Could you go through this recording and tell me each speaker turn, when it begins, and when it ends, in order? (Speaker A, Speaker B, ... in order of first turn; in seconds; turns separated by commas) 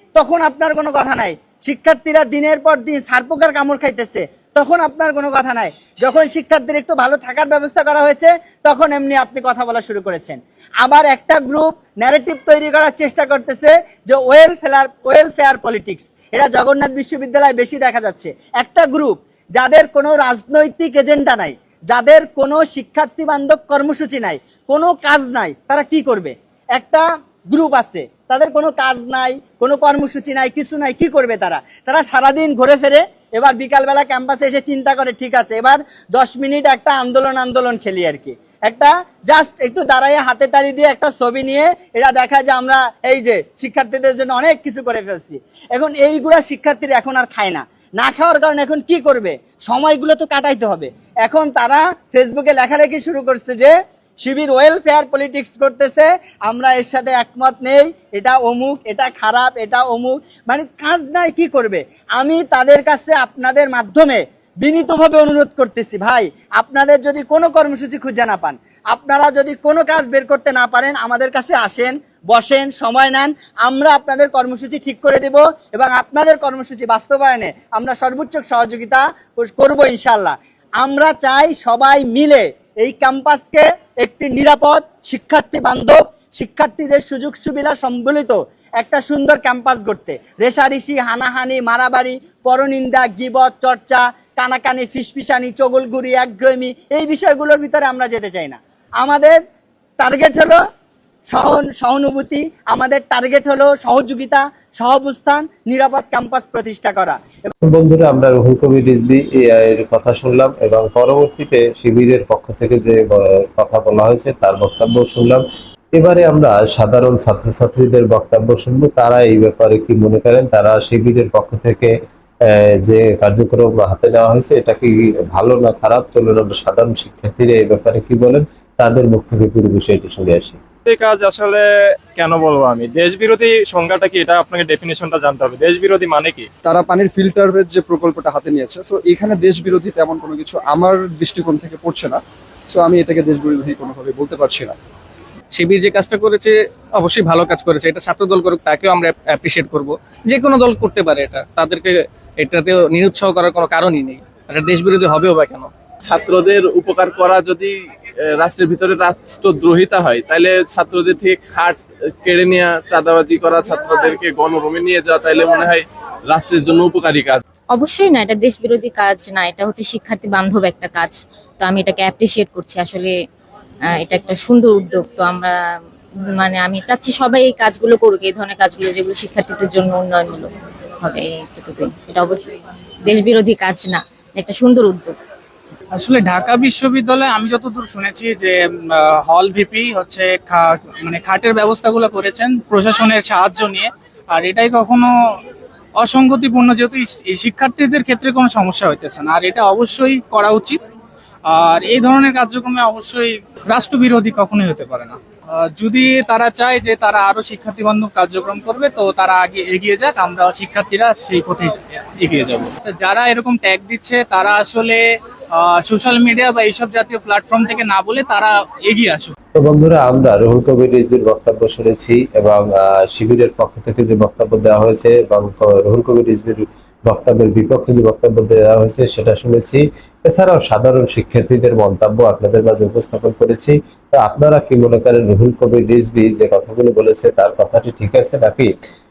Speaker A: 0.2-99.4, Speaker A: 100.0-100.6, Speaker A: 101.3-107.5, Speaker B: 107.6-121.9, Speaker B: 122.5-130.6, Speaker C: 130.9-136.5, Speaker D: 136.7-144.8, Speaker E: 145.5-155.7, Speaker F: 156.0-157.8, Speaker F: 158.3-167.4, Speaker G: 167.7-173.1, Speaker G: 174.0-175.6, Speaker G: 176.4-180.5, Speaker G: 181.0-185.1, Speaker H: 185.9-195.1, Speaker H: 196.0-200.8, Speaker H: 201.5-215.0, Speaker H: 215.6-219.3, Speaker B: 219.6-238.7